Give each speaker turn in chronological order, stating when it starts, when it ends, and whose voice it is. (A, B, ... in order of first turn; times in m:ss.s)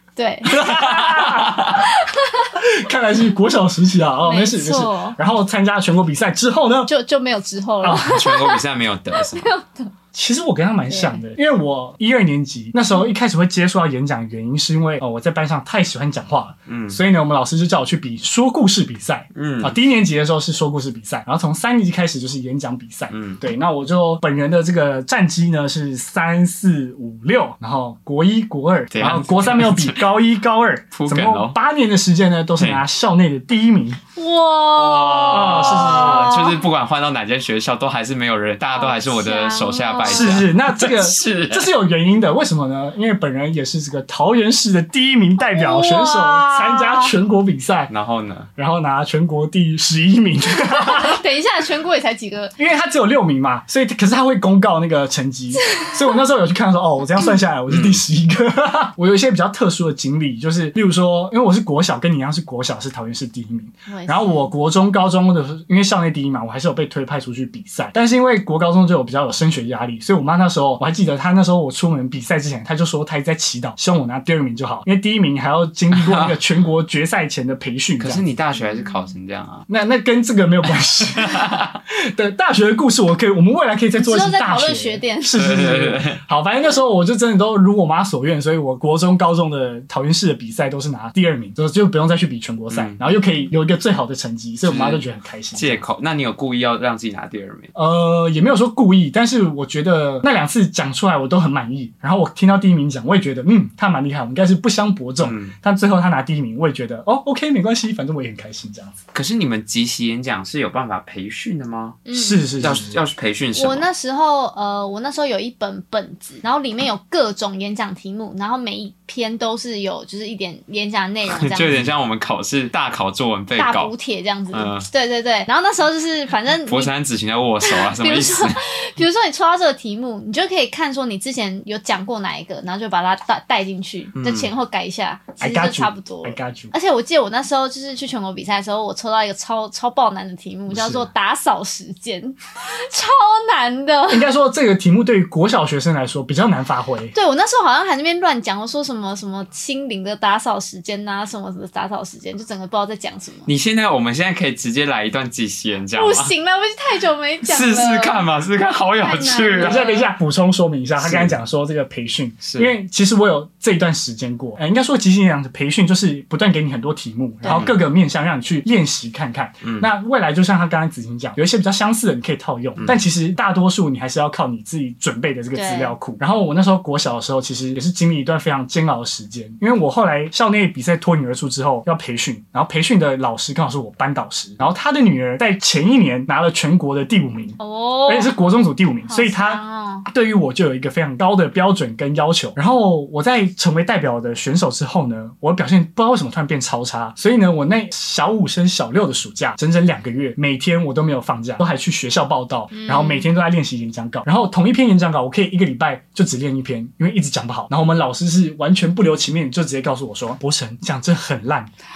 0:00.2-0:00.7 A
0:00.5-0:01.8 B
0:00.5-0:01.9 C
0:01.8-0:02.5 A
0:02.6-0:06.9 B
0:04.2-0:05.2 A
0:06.9-0:08.6 A
0:07.8-0:08.1 B
0:08.0-0:09.5 C
0:09.2-0:09.9 A
0:10.1-0:34.0 B
0:10.9-0:11.2 A
0:16.7-0:17.0 C
0:19.3-0:19.8 C
0:23.1-0:23.4 C
0:28.9-0:30.1 C
0:30.9-0:31.6 C
0:32.6-0:32.8 C
0:34.2-0:36.6 A
0:34.8-0:41.7 C
0:35.3-0:36.4 B
0:38.8-0:40.4 A
0:40.1-0:47.9 B
0:45.4-0:47.1 A
0:47.9-0:48.5 C
0:48.6-0:51.2 B
0:50.6-0:52.6 A
0:52.6-1:18.2 B
0:57.7-0:58.0 C
1:03.9-1:04.5 A
1:15.9-1:16.4 C
1:18.0-1:19.7 C
1:19.7-1:35.8 B
1:21.2-1:21.8 C
1:24.0-1:25.6 A
1:25.4-1:26.2 C
1:32.7-1:33.0 C
1:34.6-1:37.7 C
1:37.8-1:49.0 B
1:45.2-1:45.6 C
1:49.1-1:52.1 C
1:52.1-1:52.6 A
1:52.1-1:53.0 B
1:52.6-1:53.9 C
1:53.6-2:01.7 A
2:01.3-2:03.9 C
2:03.6-2:06.9 A
2:04.5-2:04.9 C
2:06.7-2:08.6 C
2:07.6-2:24.3 A
2:14.2-2:14.5 C
2:15.4-2:16.7 B
2:20.7-2:21.1 B
2:24.1-2:27.1 B
2:27.1-2:33.5 A
2:33.5-2:36.3 C
2:35.9-2:38.3 A
2:37.4-2:39.8 C
2:39.0-2:40.1 A
2:39.6-3:31.7 B
2:41.0-2:41.4 C
2:42.4-2:42.7 C
2:47.5-2:47.8 C
2:49.6-2:49.9 C
2:52.8-2:53.0 C
2:55.5-2:56.0 A
3:07.6-3:08.4 A
3:09.1-3:10.1 A
3:22.7-3:23.3 A